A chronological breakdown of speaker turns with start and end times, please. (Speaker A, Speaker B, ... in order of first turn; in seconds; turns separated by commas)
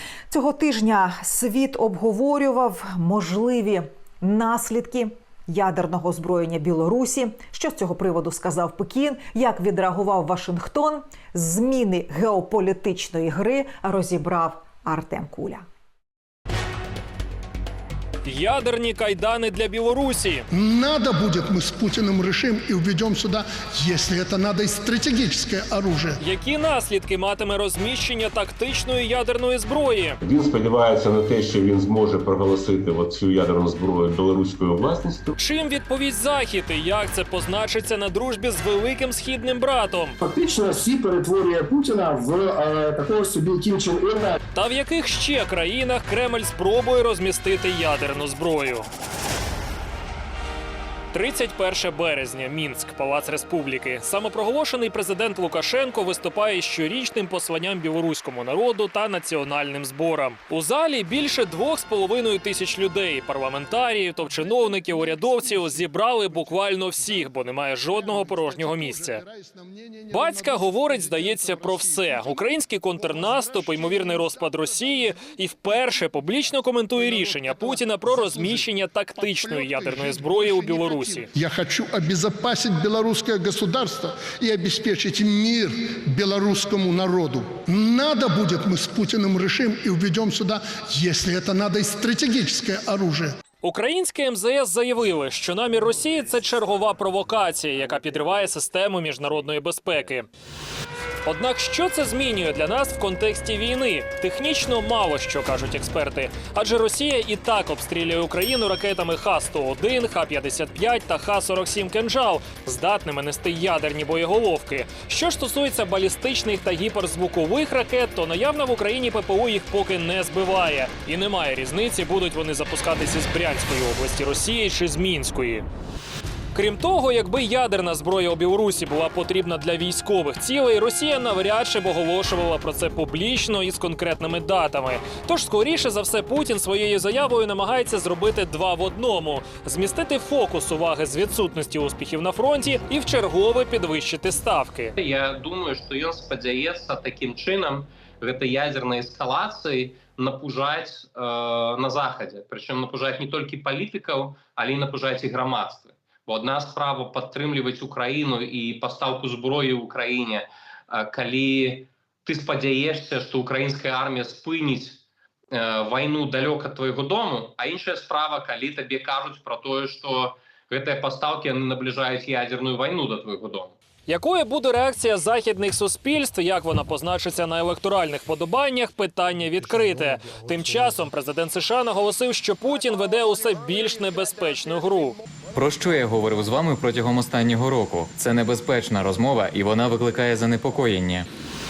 Speaker A: 0.3-15.7, Speaker B: 18.3-20.5, Speaker C: 20.5-26.2, Speaker B: 26.2-30.2, Speaker D: 30.2-35.4, Speaker B: 35.4-40.2, Speaker E: 40.2-44.4, Speaker B: 44.5-48.9, Speaker B: 51.1-69.2, Speaker C: 64.4-67.3, Speaker C: 67.9-75.3, Speaker B: 70.1-81.3, Speaker C: 77.0-93.3, Speaker B: 93.6-100.3, Speaker B: 101.3-125.7, Speaker B: 126.5-144.9, Speaker F: 145.0-165.0, Speaker F: 165.5-173.7, Speaker B: 174.1-185.2, Speaker C: 180.0-180.4, Speaker G: 185.6-191.3